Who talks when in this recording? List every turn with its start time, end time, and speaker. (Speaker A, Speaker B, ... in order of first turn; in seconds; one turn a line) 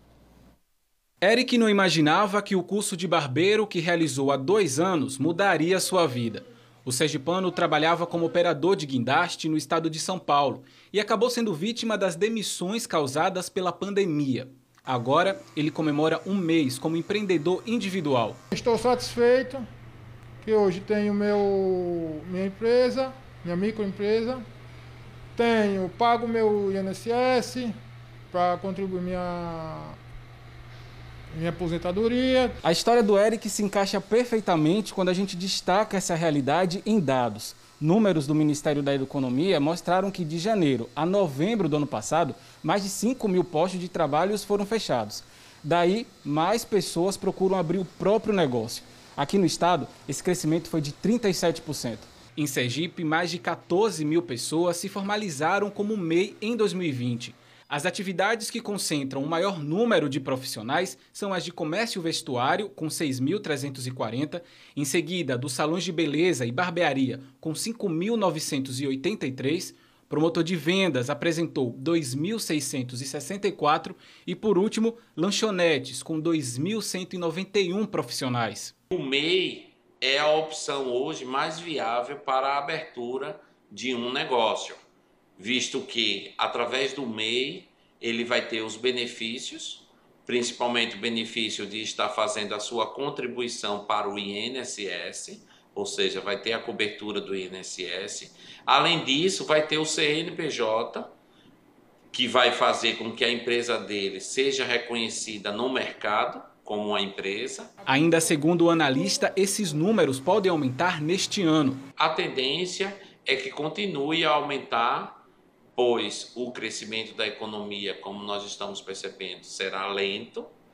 Speaker A: 1.2-18.4
Speaker B: 18.5-19.6
Speaker B: 20.4-24.4
Speaker B: 25.4-27.7
Speaker B: 28.3-30.0
Speaker B: 31.4-32.6
Speaker A: 32.6-78.7
Speaker C: 78.9-84.8
Speaker C: 85.4-101.1
Speaker C: 102.1-107.7
Speaker A: 107.9-111.8
Speaker C: 112.0-115.2
Speaker C: 115.8-120.6